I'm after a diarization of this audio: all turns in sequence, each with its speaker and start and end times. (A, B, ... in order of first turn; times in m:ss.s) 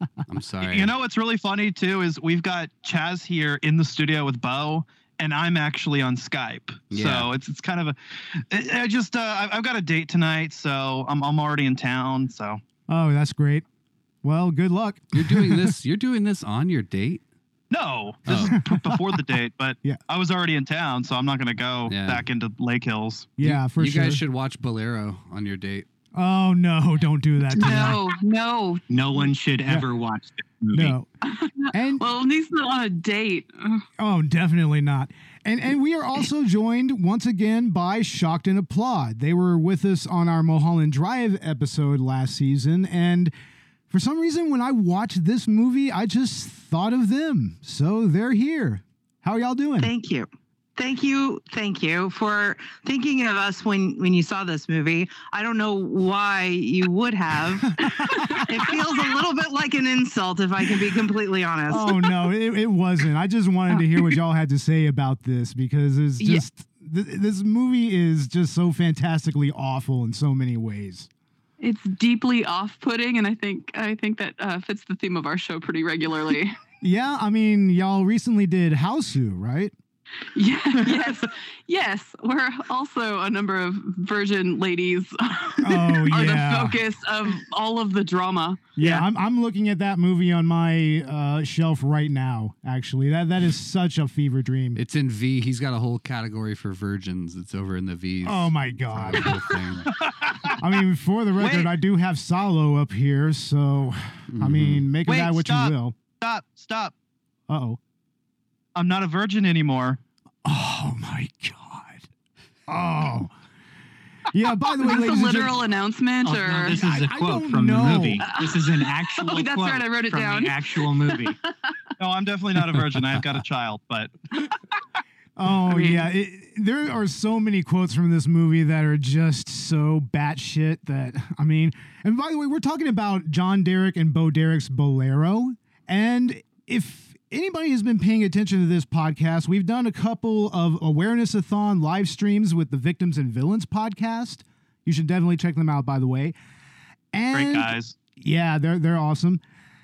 0:00.3-0:00.9 A
0:00.6-0:12.6 B
0:06.9-0:07.3 A
0:12.9-0:13.6 C
0:14.2-0:15.8 C
0:15.1-0:17.2 A
0:17.7-0:23.3 B
0:18.3-0:18.6 A
0:18.3-0:19.2 C
0:21.9-0:22.2 A
0:23.4-0:24.2 C
0:23.4-0:25.9 A
0:26.1-0:28.0 C
0:27.5-0:28.8 D
0:28.9-0:31.0 E
0:30.7-0:31.1 C
0:31.2-0:33.8 D
0:31.7-0:32.0 C
0:34.0-0:43.3 C
0:43.9-0:49.9 C
0:49.8-1:01.9 F
0:57.6-0:58.5 C
0:58.0-0:58.4 D
1:01.7-1:11.1 C
1:06.2-1:06.4 D
1:11.6-1:16.6 D
1:16.8-1:19.7 C
1:20.3-1:28.9 D
1:25.6-1:26.8 C
1:28.8-1:34.8 C
1:34.7-1:40.0 A
1:38.2-1:46.0 C
1:40.2-1:40.6 B
1:41.4-1:41.7 B
1:44.3-1:44.9 A
1:45.1-1:46.9 B
1:47.5-1:47.8 C
1:48.7-1:50.0 B
1:50.4-1:52.1 C
1:52.7-1:53.3 C
1:54.3-1:55.6 C
1:54.7-1:56.8 D
1:56.2-2:01.4 E
1:56.8-1:58.2 C
1:58.2-2:01.3 D
2:02.0-2:04.5 B
2:05.4-2:26.3 C
2:05.7-2:06.0 D
2:27.1-2:29.4 C
2:27.3-2:28.0 B